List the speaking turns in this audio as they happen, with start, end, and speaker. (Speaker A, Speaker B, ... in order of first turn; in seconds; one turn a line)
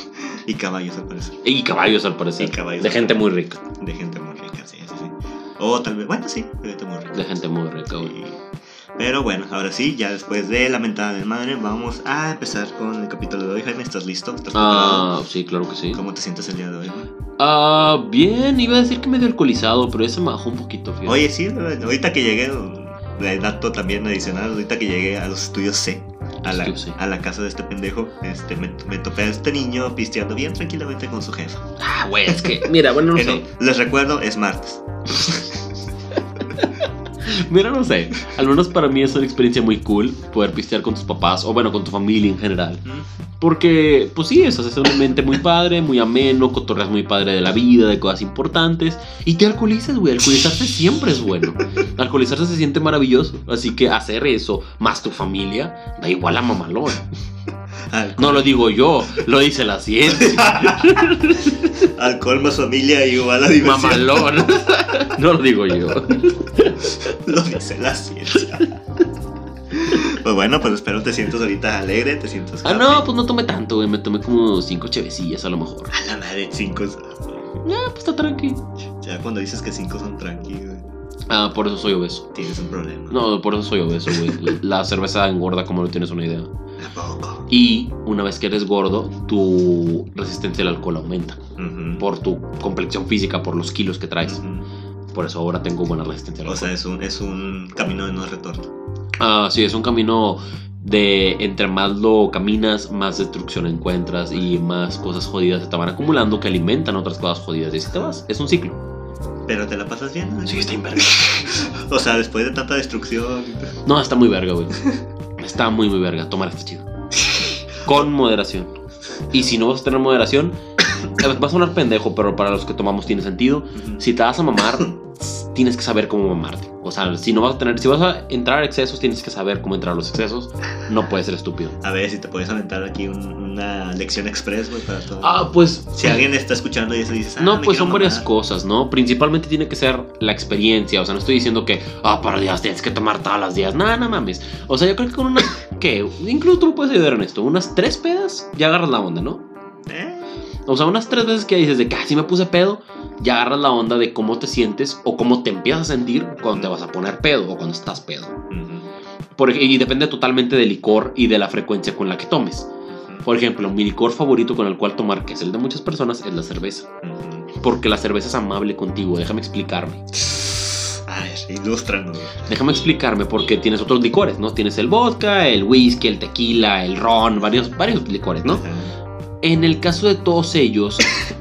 Speaker A: 0.2-1.4
Speaker B: 1.4-3.6
Speaker A: 2.4-7.3
Speaker B: 7.1-8.1
Speaker A: 7.9-8.4
Speaker A: 9.0-15.1
Speaker B: 14.5-16.0
Speaker A: 15.9-17.1
Speaker B: 17.4-21.2
Speaker A: 21.1-31.7
Speaker B: 26.4-27.0
Speaker B: 31.8-33.4
Speaker A: 32.3-35.6
Speaker B: 36.5-42.8
Speaker B: 43.4-57.0
Speaker A: 57.9-58.6
Speaker B: 58.2-61.8
Speaker A: 60.1-64.9
Speaker B: 63.6-67.1
Speaker A: 67.0-68.7
Speaker A: 69.7-73.1
Speaker B: 72.6-75.9
Speaker A: 75.9-77.4
Speaker B: 77.6-78.6
Speaker A: 79.0-80.9
Speaker B: 81.3-82.3
Speaker A: 82.3-83.2
Speaker B: 83.1-86.5
Speaker A: 86.8-87.5
Speaker B: 87.5-91.4
Speaker A: 91.6-92.0
Speaker B: 92.0-94.4
Speaker A: 94.2-94.7
Speaker B: 95.1-96.7
Speaker A: 96.5-98.7
Speaker B: 99.2-108.8
Speaker A: 109.5-113.8
Speaker B: 110.5-111.5
Speaker B: 113.8-114.8
Speaker B: 115.4-116.8
Speaker A: 117.3-118.0
Speaker B: 117.8-118.7
Speaker B: 119.3-131.7
Speaker A: 123.8-124.0
Speaker A: 131.8-138.3
Speaker B: 135.2-136.2
Speaker B: 137.4-149.4
Speaker A: 149.8-150.2
Speaker B: 150.7-158.3
Speaker A: 158.5-158.9
Speaker B: 159.4-162.7
Speaker A: 163.0-163.2
Speaker B: 163.2-166.9
Speaker A: 167.0-167.5
Speaker B: 167.6-170.0
Speaker A: 170.2-172.5
Speaker B: 172.4-178.6
Speaker A: 178.4-178.9
Speaker B: 179.4-181.1